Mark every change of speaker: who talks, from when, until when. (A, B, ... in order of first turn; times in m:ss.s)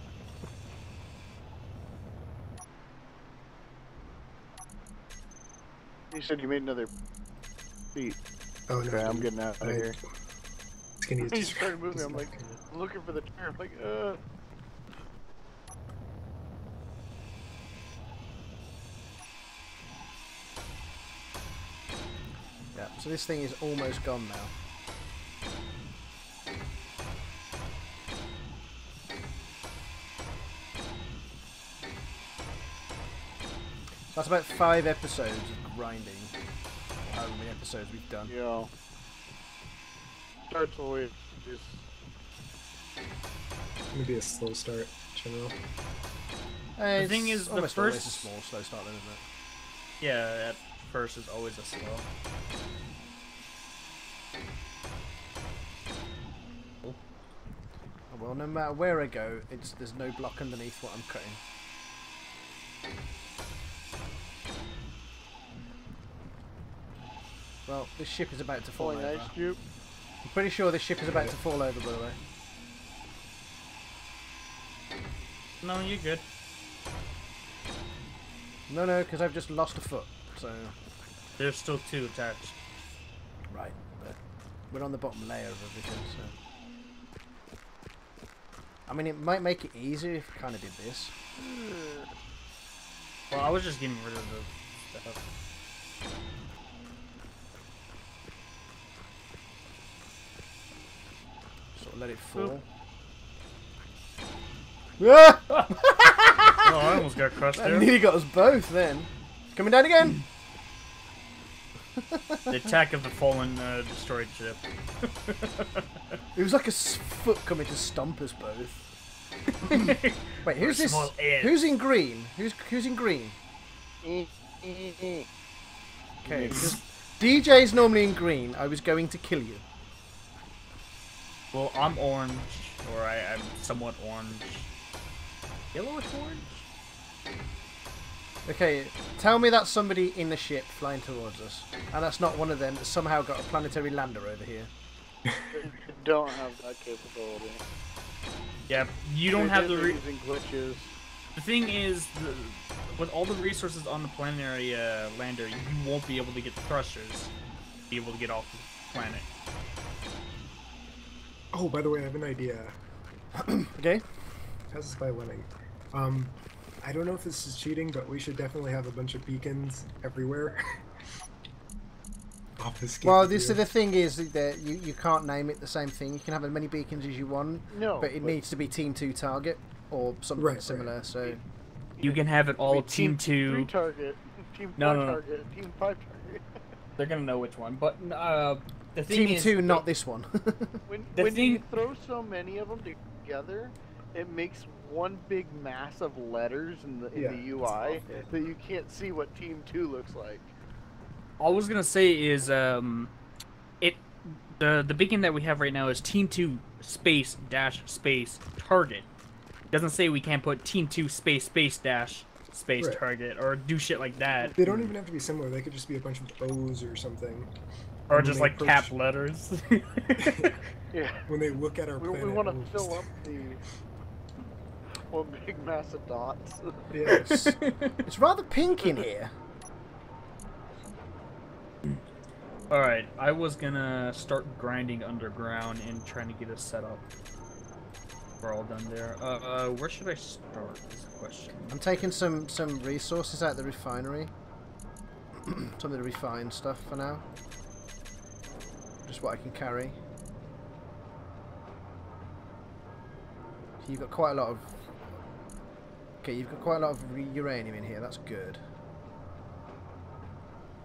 0:06.1-0:06.9 A
0:08.7-0:09.9 B
0:08.8-0:10.0 A
0:11.0-0:12.5 B
0:11.2-0:14.2 A
0:22.7-0:24.5 C
0:34.1-0:36.3 C
0:37.1-0:38.3 C
0:38.3-0:38.7 A
0:40.5-0:41.8 A
0:43.9-0:45.6 B
0:46.8-0:49.2 C
0:46.9-0:48.3 D
0:50.0-0:52.1 D
0:58.1-1:01.4 C
1:07.7-1:09.3 C
1:08.8-1:09.6 A
1:10.2-1:12.2 C
1:15.6-1:16.2 D
1:18.7-1:20.7 C
1:21.4-1:22.6 D
1:23.5-1:24.2 C
1:24.7-1:26.3 C
1:28.9-1:31.2 C
1:31.4-1:32.1 A
1:33.3-1:35.2 D
1:41.7-1:42.6 C
1:45.0-1:47.0 C
1:46.6-1:47.9 D
1:47.5-1:50.2 C
1:52.0-1:52.6 C
1:52.5-1:55.8 D
1:56.3-1:58.9 C
1:59.6-2:01.6 D
2:00.4-2:03.4 C
2:04.0-2:05.2 A
2:06.2-2:06.8 A
2:06.2-2:09.6 C
2:06.5-2:06.8 D
2:11.5-2:14.7 D
2:15.7-2:16.6 D
2:18.4-2:24.7 C
2:25.5-2:27.6 A
2:28.7-2:30.0 D
2:29.3-2:31.0 A
2:31.3-2:37.3 D
2:37.9-2:39.2 D
2:41.5-2:42.8 B
2:43.5-2:44.0 C
2:44.7-2:50.8 B
2:52.6-2:53.6 B
2:53.0-3:01.4 C
2:57.7-2:58.4 A
3:00.4-3:00.9 B
3:02.0-3:03.7 D
3:02.0-3:06.4 A
3:04.8-3:05.2 D
3:07.0-3:09.8 D
3:09.1-3:10.8 C
3:10.9-3:20.5 A
3:11.2-3:11.6 D
3:17.1-3:18.3 B
3:21.4-3:23.1 D
3:23.8-3:29.1 D
3:29.7-3:34.9 D
3:34.6-3:37.5 B
3:38.1-3:38.9 B
3:38.1-3:40.6 D
3:40.2-3:40.5 B
3:40.9-3:41.2 A
3:41.2-3:43.0 B
3:42.0-3:43.6 A
3:45.1-3:46.9 A
3:46.9-3:47.4 B
3:47.1-3:48.0 D
3:47.1-3:47.5 C
3:48.0-3:49.3 C
3:52.7-3:57.0 D
3:58.4-4:02.0 D
4:01.7-4:04.3 C
4:05.5-4:07.2 C
4:09.0-4:10.0 C
4:13.8-4:14.7 C
4:16.2-4:18.6 C